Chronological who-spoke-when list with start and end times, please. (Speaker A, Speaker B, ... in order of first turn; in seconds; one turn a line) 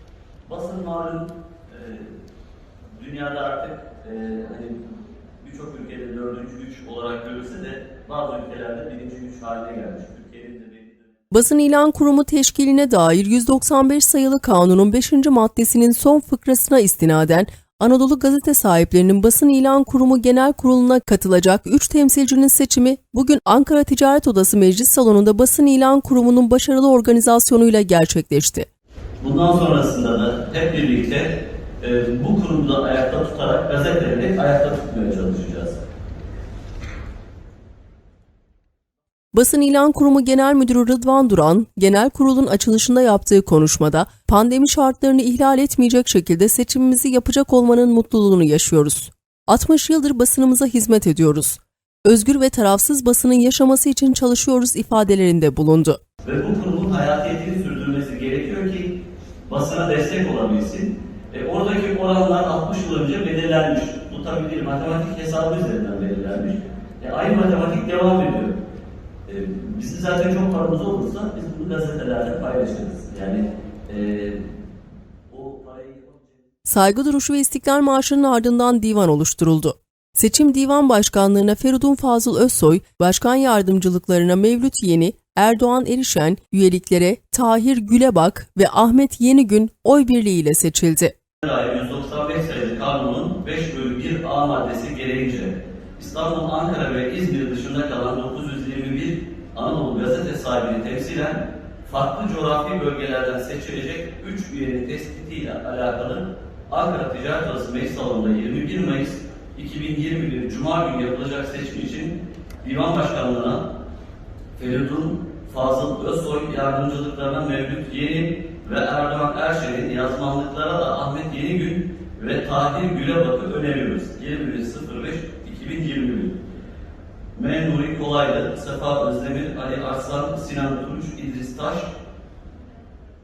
Speaker A: 0.5-2.1
Speaker A: 3.0-4.8
Speaker A: 5.4-11.2
Speaker B: 11.3-28.7
Speaker A: 29.2-35.8
Speaker B: 39.3-56.0
Speaker A: 56.2-59.0
Speaker A: 59.5-68.6
Speaker A: 69.3-74.4
Speaker A: 75.3-76.4
Speaker B: 76.7-91.1
Speaker A: 91.4-113.6
Speaker A: 114.6-126.4
Speaker A: 127.3-131.9